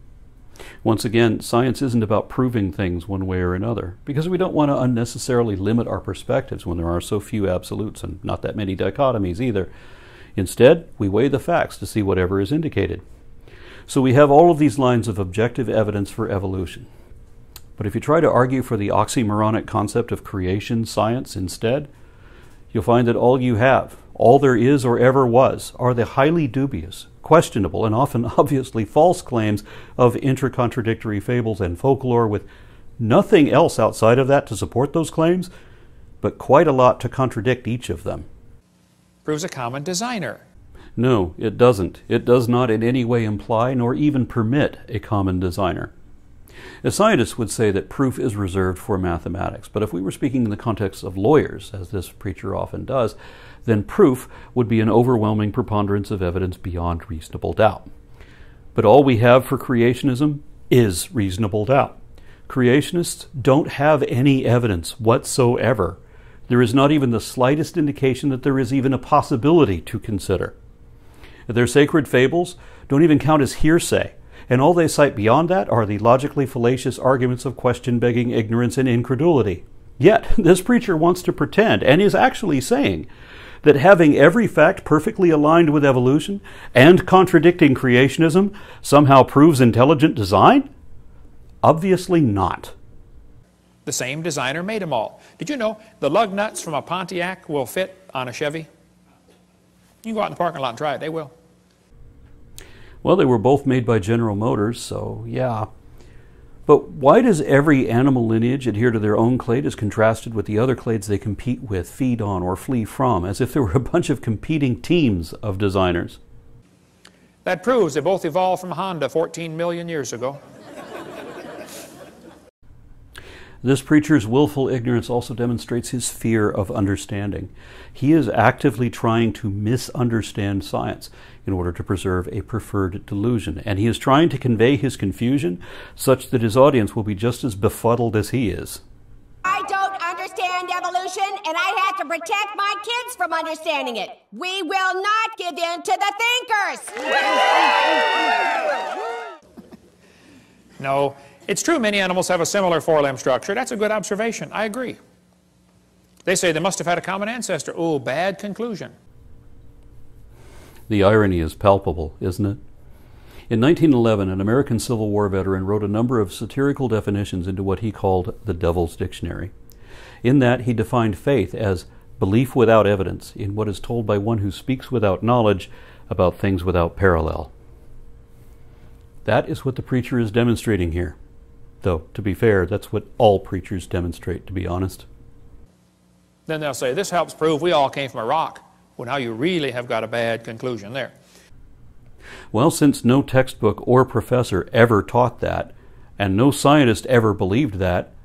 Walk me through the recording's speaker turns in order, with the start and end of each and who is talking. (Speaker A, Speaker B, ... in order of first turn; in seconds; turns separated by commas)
Speaker A: 0.8-9.7, Speaker A: 10.4-13.0, Speaker A: 13.9-16.9, Speaker A: 17.8-21.9, Speaker A: 22.7-32.5, Speaker A: 33.0-35.5, Speaker A: 36.2-38.3, Speaker B: 39.2-40.4, Speaker A: 41.0-45.9, Speaker A: 46.8-57.9, Speaker A: 58.8-70.5, Speaker A: 71.5-83.1, Speaker A: 83.6-90.7, Speaker A: 91.6-92.7, Speaker B: 93.8-98.7, Speaker B: 100.0-101.3, Speaker A: 103.0-105.7, Speaker A: 106.7-116.2, Speaker B: 117.4-120.4, Speaker A: 123.6-138.8, Speaker C: 139.4-148.0, Speaker B: 150.8-155.0, Speaker B: 156.2-158.9, Speaker A: 160.9-162.6, Speaker A: 163.5-169.5, Speaker A: 170.2-177.5, Speaker A: 179.2-181.2, Speaker A: 181.8-185.1, Speaker B: 186.5-191.1, Speaker A: 192.5-198.1